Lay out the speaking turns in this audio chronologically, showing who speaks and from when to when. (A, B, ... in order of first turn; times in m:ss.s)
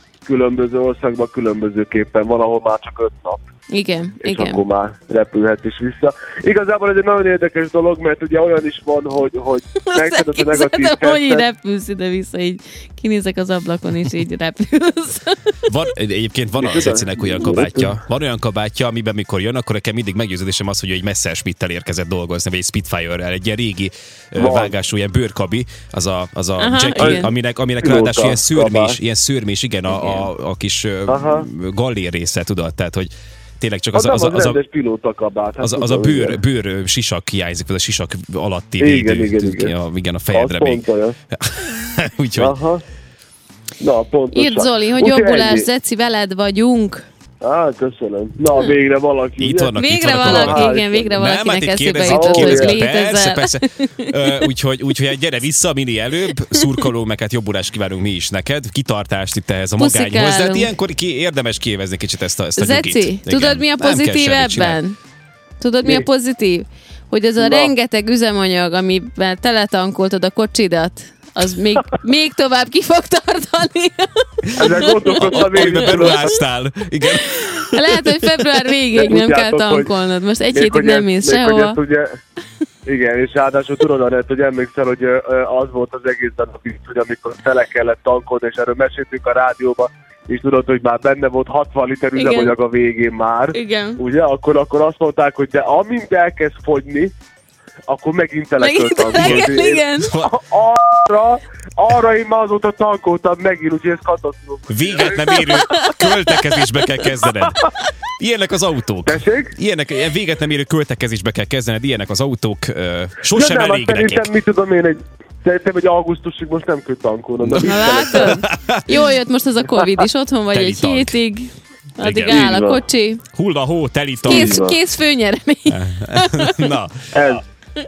0:00.2-0:03.4 A
0:03.7-0:04.6 B
0:04.2-0:11.4 A
0:09.8-0:15.5 B
0:15.7-0:34.6 C
0:16.6-0:18.0 A
0:24.4-0:24.7 A
0:26.6-0:27.3 B
0:26.9-0:27.2 A
0:27.8-0:29.0 A
0:29.9-0:30.3 B
0:31.1-0:31.5 A
0:33.9-0:36.4 A
0:35.6-0:42.5 C
0:38.8-0:39.7 A
0:40.3-0:41.1 A
0:42.4-0:42.8 A
0:43.8-0:45.7 A
0:44.3-0:47.0 B
0:47.4-0:51.2 A
0:49.4-1:04.8 C
0:49.7-0:54.1 B
0:52.0-0:52.8 A
0:59.8-1:00.7 B
1:02.6-1:04.9 B
1:05.6-1:16.2 B
1:07.4-1:07.7 A
1:14.6-1:16.3 A
1:14.7-1:18.7 C
1:17.7-1:21.8 B
1:18.9-1:19.9 A
1:20.5-1:22.1 A
1:22.8-1:37.1 A
1:32.2-1:32.5 B
1:33.5-1:34.0 B
1:37.9-1:45.6 A
1:38.6-1:40.1 B
1:39.1-1:39.5 C
1:40.0-1:40.3 C
1:44.7-1:47.6 C
1:45.4-1:46.5 B
1:48.2-1:54.3 C
1:49.0-1:49.5 A
1:53.3-1:58.4 A
1:57.4-1:58.8 C
1:57.6-2:03.2 B
2:00.5-2:01.1 C
2:02.0-2:02.5 C
2:02.3-2:02.8 A
2:03.3-2:04.6 C
2:04.2-2:06.7 B
2:04.2-2:04.8 A
2:05.7-2:06.9 C
2:07.1-2:07.4 A